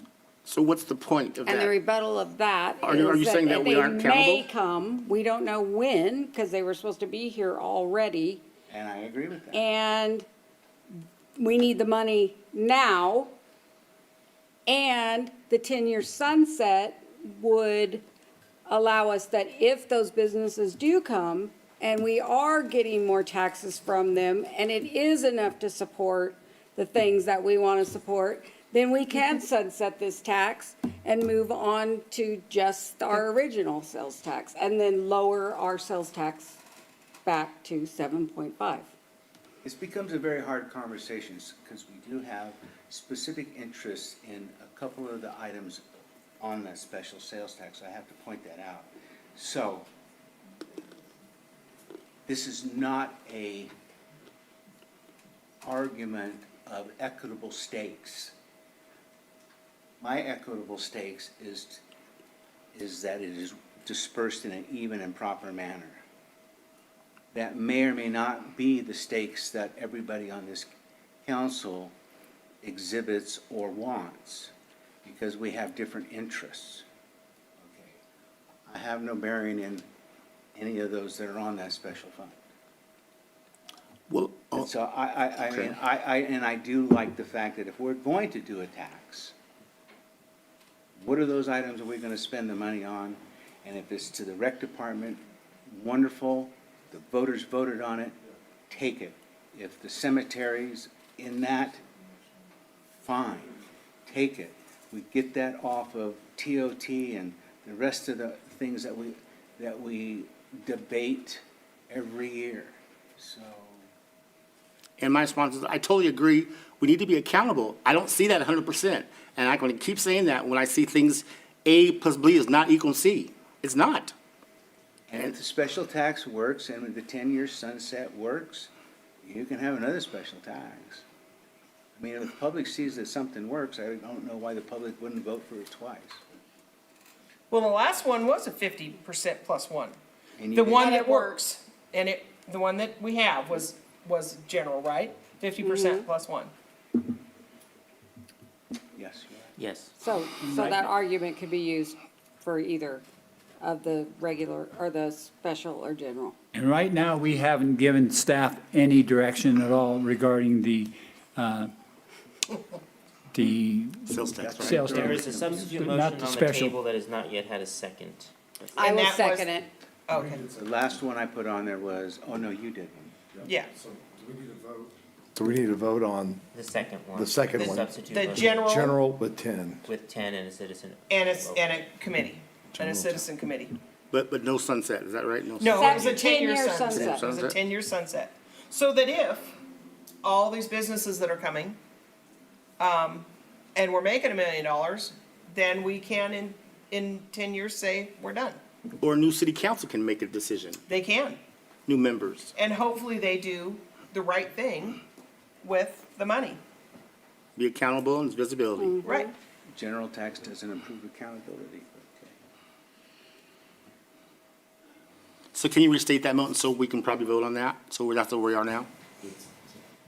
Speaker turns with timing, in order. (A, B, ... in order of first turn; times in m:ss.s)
0:00.4-0:01.7 A
0:01.4-0:08.4 B
0:02.9-0:04.4 A
0:08.7-0:09.6 C
0:09.5-0:10.2 B
0:11.4-0:13.3 B
0:14.7-0:18.0 B
0:18.6-0:36.6 B
0:37.2-0:38.9 B
0:39.6-0:49.9 C
0:52.3-0:53.7 C
0:55.6-0:58.3 C
1:00.0-1:01.8 C
1:02.7-1:06.0 C
1:07.3-1:10.7 C
1:11.2-1:11.9 C
1:12.6-1:14.5 C
1:15.0-1:16.8 C
1:17.6-1:18.0 C
1:18.7-1:19.9 C
1:20.6-1:22.4 C
1:24.1-1:24.7 A
1:24.5-1:29.3 C
1:31.0-1:38.2 C
1:38.7-1:41.8 C
1:43.0-1:53.8 C
1:55.0-2:04.1 A
2:05.1-2:08.7 C
2:09.2-2:11.0 C
2:12.0-2:16.2 C
2:17.5-2:20.0 D
2:20.4-2:20.8 C
2:20.5-2:26.5 D
2:20.8-2:21.4 B
2:25.6-2:25.9 B
2:29.0-2:29.5 C
2:29.6-2:29.9 E
2:30.0-2:33.0 B
2:30.4-2:30.9 F
2:33.6-2:36.3 B
2:36.5-2:41.7 F
2:43.3-2:46.8 F
2:44.1-2:44.8 A
2:44.4-2:45.8 C
2:44.8-2:48.9 E
2:48.8-2:49.7 B
2:48.8-2:49.5 D
2:50.1-2:50.4 D
2:50.5-2:53.1 C
2:53.4-2:56.4 G
2:53.4-2:53.7 D
2:56.5-2:58.7 E
2:57.1-2:59.8 G
2:57.6-2:59.0 D
2:59.8-3:01.9 E
3:01.1-3:03.8 D
3:02.7-3:03.3 G
3:04.1-3:06.2 A
3:05.6-3:09.5 D
3:05.7-3:07.3 B
3:06.9-3:07.5 A
3:10.2-3:11.8 D
3:12.8-3:18.6 D
3:19.0-3:20.8 A
3:20.9-3:21.4 D
3:21.9-3:22.5 A
3:22.5-3:25.0 D
3:25.6-3:26.6 D
3:27.6-3:29.0 A
3:28.8-3:29.3 B
3:29.0-3:29.3 D
3:29.7-3:32.3 C
3:35.5-3:38.9 A